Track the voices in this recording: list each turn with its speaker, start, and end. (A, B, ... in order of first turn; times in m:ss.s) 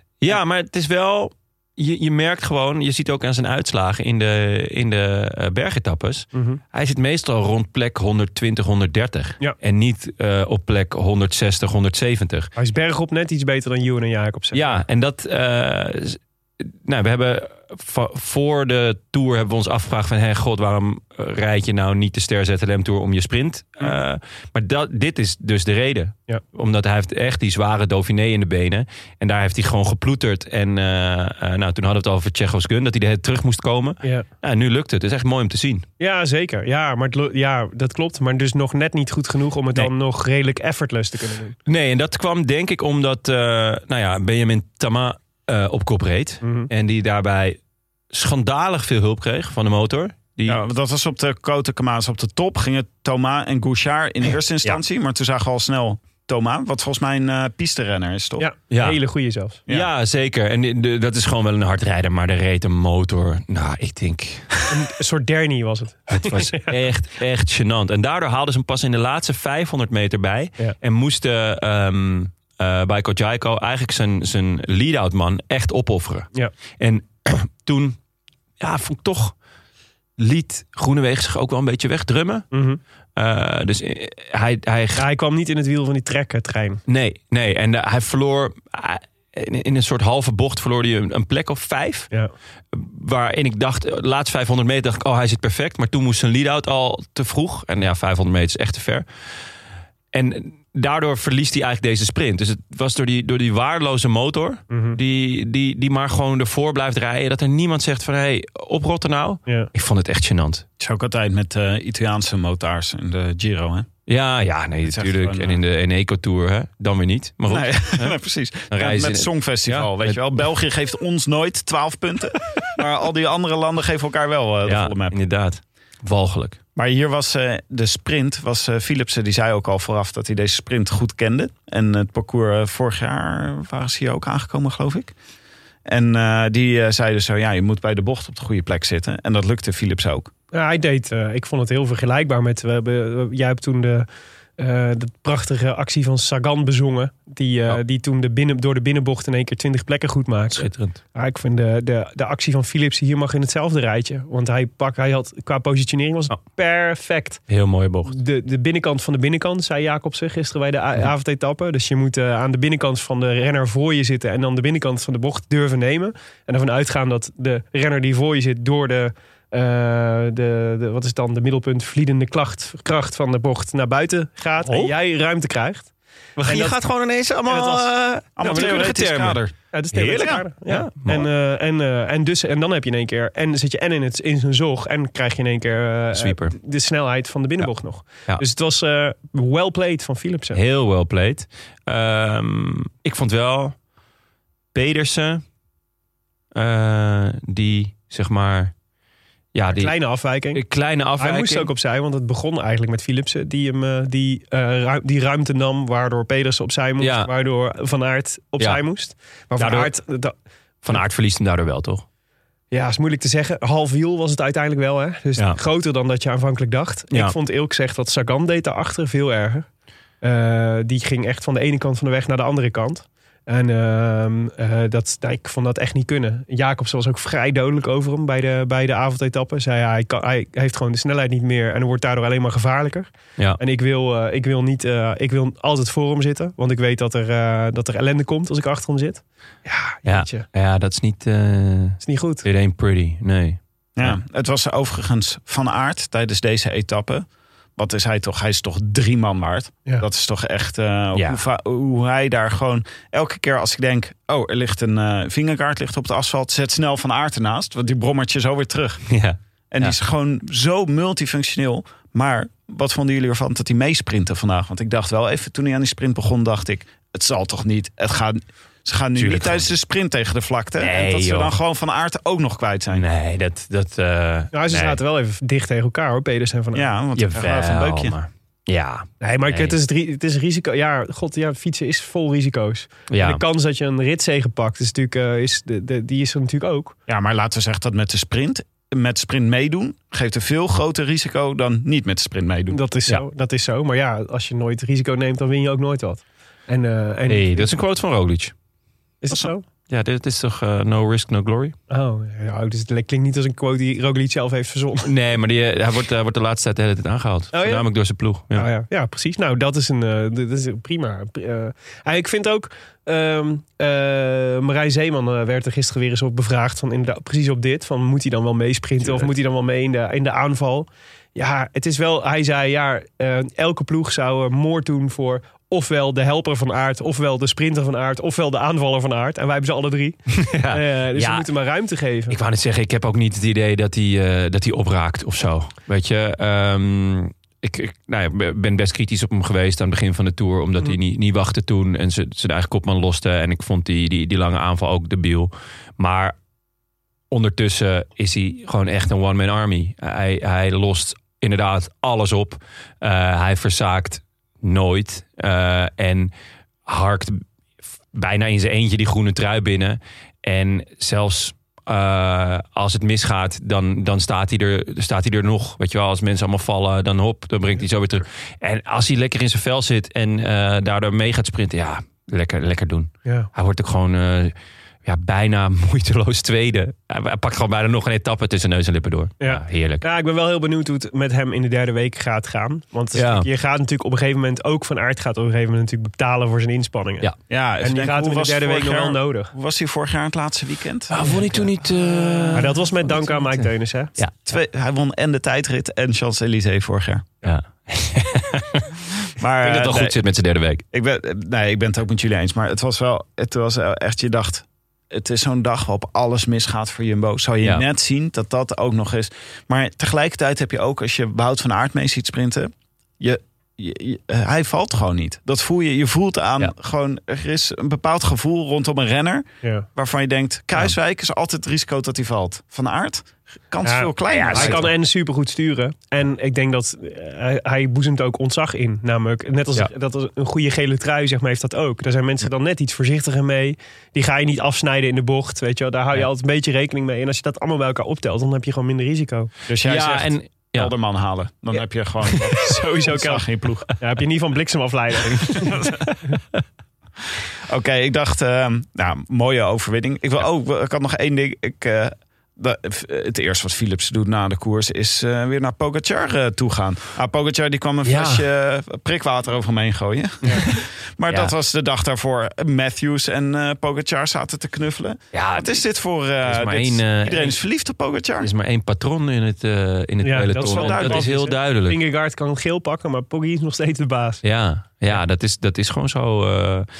0:00.2-0:12.5 A
0:06.3-0:06.6 B
0:12.6-0:14.8 B
0:14.5-0:35.8 A
0:36.0-0:41.6 B
0:41.6-0:47.6 A
0:46.4-0:46.7 B
0:48.1-0:50.6 A
0:50.4-0:58.5 C
0:58.4-0:59.6 B
0:58.7-0:59.0 A
0:59.7-1:04.7 A
1:04.7-1:06.7 B
1:06.1-1:18.0 A
1:18.6-1:19.3 A
1:20.2-1:22.5 A
1:22.5-1:22.8 B
1:23.2-1:25.0 A
1:25.0-1:26.8 B
1:26.9-1:32.1 A
1:32.7-1:39.0 A
1:40.1-1:50.6 A
1:44.7-1:45.0 B
1:50.8-1:53.9 C
1:54.1-1:58.2 A
1:54.8-1:55.6 C
1:57.5-2:05.2 C
1:58.7-2:00.2 A
2:04.6-2:06.6 A
2:06.8-2:15.1 C
2:15.8-2:20.3 C
2:20.5-2:24.1 B
2:24.6-2:37.4 B
2:30.5-2:31.0 A
2:37.5-2:38.1 A
2:38.0-2:55.9 B
2:54.6-2:54.9 A
2:56.4-2:59.4 A
2:56.4-2:56.8 B
2:57.5-2:58.9 B
2:58.4-3:00.4 C
2:59.7-3:10.6 B
3:00.6-3:01.3 A
3:06.1-3:06.6 A
3:10.5-3:13.7 A
3:14.7-3:15.4 A
3:16.5-3:18.7 A
3:19.5-3:20.0 A
3:19.7-3:20.6 B
3:20.5-3:21.7 A
3:21.2-3:30.3 B
3:27.0-3:27.3 A
3:29.6-3:29.9 A
3:30.8-3:32.0 A
3:32.7-3:39.7 B
3:40.2-4:00.4 B
4:00.0-4:04.2 A
4:02.0-4:02.4 B
4:04.0-4:19.1 C
4:11.1-4:11.4 A
4:19.1-4:20.0 A
4:19.7-4:33.0 C
4:29.2-4:29.7 A
4:30.8-4:31.6 A
4:32.9-4:35.0 A
4:34.5-4:36.8 B
4:36.7-4:38.1 C
4:37.2-4:39.8 A
4:39.2-4:46.9 B
4:43.1-4:43.4 A
4:47.1-4:52.8 C
4:52.7-4:57.7 B
4:57.3-4:58.5 A
4:59.2-4:59.6 B
4:59.9-5:01.7 A
5:01.9-5:05.1 B
5:05.0-5:08.7 A
5:07.5-5:07.8 B
5:08.5-5:32.4 B
5:30.3-5:31.5 A
5:32.3-5:46.3 A
5:47.3-5:56.3 A
5:56.9-5:57.4 A
5:58.1-6:14.5 A
6:15.0-6:20.0 A
6:19.4-6:27.3 B
6:23.1-6:23.5 A
6:27.5-6:31.6 C
6:27.8-6:29.5 B
6:31.1-6:33.6 A
6:32.5-6:34.1 B
6:34.4-6:37.3 C
6:37.4-6:38.9 A
6:39.4-6:40.2 C
6:39.6-6:40.8 A
6:40.9-7:04.9 C
7:03.8-7:19.5 B
7:04.3-7:04.9 A
7:19.7-7:23.9 C
7:19.8-7:20.9 A
7:22.6-7:25.9 B
7:25.6-7:25.9 A
7:27.7-7:48.5 C
7:38.0-7:38.4 A
7:41.3-7:41.5 A
7:45.3-7:45.8 A
7:46.4-7:47.6 A
7:48.4-7:52.0 A
7:50.2-7:54.4 B
7:50.6-7:51.2 C
7:54.4-7:56.9 A